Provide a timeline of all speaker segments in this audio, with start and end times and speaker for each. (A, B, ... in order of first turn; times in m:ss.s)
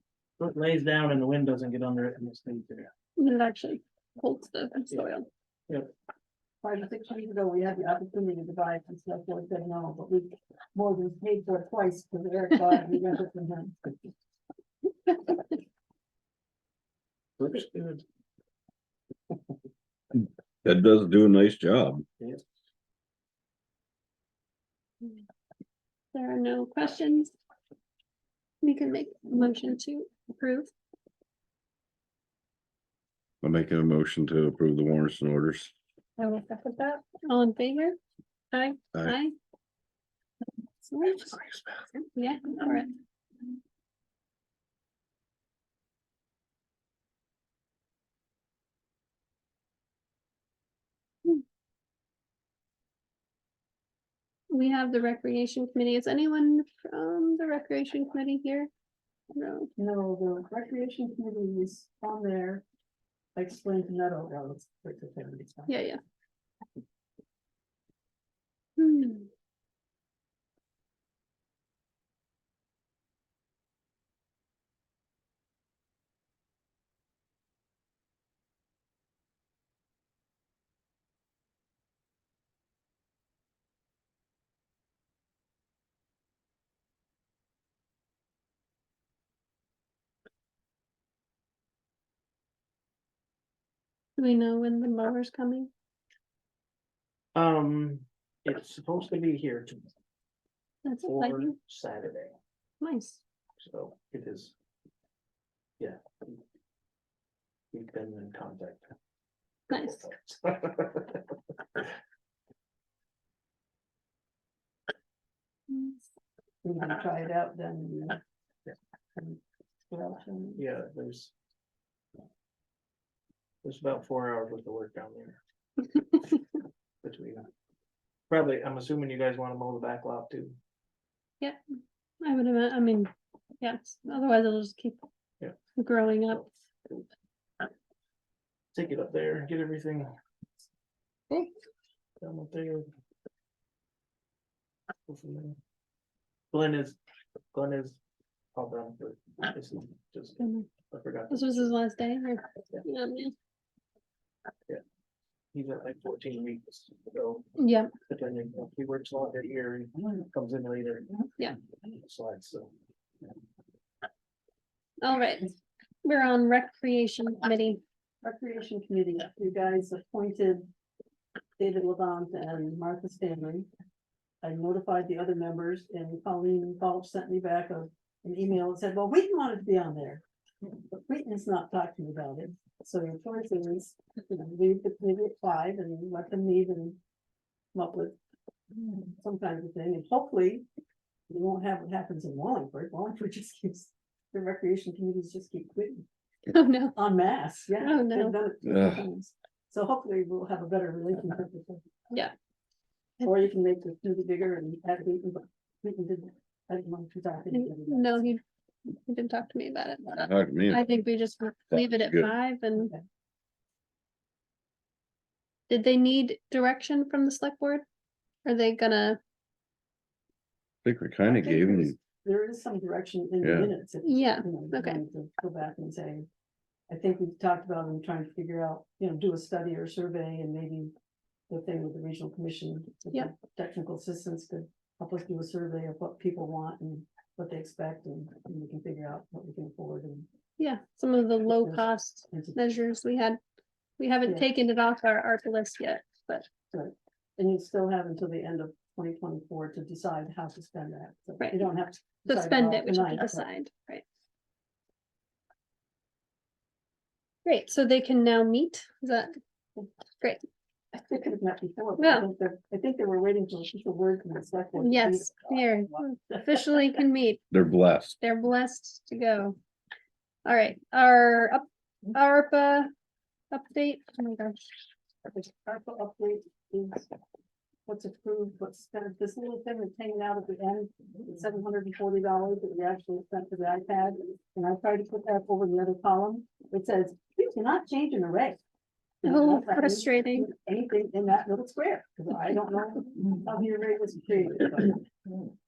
0:00.4-0:02.9 A
0:03.2-0:05.3 B
0:06.6-0:14.0 C
0:17.4-0:18.0 A
0:20.6-0:22.0 D
0:26.1-0:27.3 B
0:28.6-0:30.7 B
0:33.4-0:35.7 D
0:36.2-0:38.0 B
0:38.5-0:39.4 B
0:40.9-0:41.4 B
0:41.5-0:41.8 D
0:42.2-0:42.9 B
0:54.5-0:58.7 B
0:59.3-0:59.7 B
0:59.8-1:02.6 C
1:03.4-1:05.8 C
1:05.7-1:06.0 B
1:08.8-1:09.3 B
1:34.2-1:35.7 B
1:37.4-1:39.9 A
1:40.8-1:41.6 B
1:41.0-1:42.4 A
1:42.8-1:43.2 B
1:43.6-1:44.5 A
1:45.8-1:46.4 A
1:47.7-1:48.9 A
1:49.7-1:50.1 B
1:49.7-1:51.9 A
1:55.7-1:56.0 B
1:56.6-1:58.2 C
1:59.2-2:00.7 C
2:00.6-2:01.3 A
2:03.6-2:05.4 A
2:07.0-2:07.5 A
2:08.3-2:10.6 A
2:12.2-2:15.0 B
2:15.8-2:16.5 B
2:18.7-2:20.1 A
2:22.2-2:22.9 A
2:25.1-2:25.6 A
2:26.5-2:27.0 A
2:27.5-2:28.0 A
2:28.5-2:31.7 A
2:30.4-2:30.7 B
2:31.3-2:33.3 B
2:35.5-2:37.5 A
2:37.6-2:37.9 B
2:38.0-2:41.1 A
2:41.8-2:42.7 A
2:45.0-2:45.5 B
2:46.0-2:47.8 B
2:48.2-2:50.7 C
2:51.6-2:53.7 C
2:54.4-3:00.2 C
3:00.9-3:07.0 C
3:07.7-3:08.2 C
3:09.2-3:10.7 C
3:11.3-3:16.1 C
3:16.5-3:17.0 B
3:17.0-3:21.9 C
3:17.8-3:18.4 B
3:18.6-3:19.1 D
3:23.2-3:28.2 C
3:27.5-3:28.4 B
3:29.0-3:32.9 B
3:30.1-3:30.8 D
3:31.7-3:32.3 D
3:35.7-3:37.8 B
3:38.4-3:39.2 B
3:40.8-3:42.0 D
3:41.3-3:46.3 C
3:43.4-3:43.7 D
3:44.0-3:45.0 B
3:46.9-3:50.9 C
3:51.5-4:00.3 C
4:00.6-4:03.4 B
4:01.5-4:02.6 C
4:04.0-4:06.5 B
4:06.7-4:13.5 C
4:11.4-4:11.7 B
4:12.3-4:14.0 B
4:17.4-4:19.3 B
4:20.9-4:26.8 C
4:22.0-4:22.3 B
4:24.8-4:27.4 B
4:27.5-4:28.2 D
4:28.2-4:29.6 B
4:30.4-4:32.9 B
4:33.5-4:34.6 B
4:35.2-4:37.1 C
4:37.9-4:48.6 C
4:49.2-4:55.0 C
4:49.2-4:50.5 B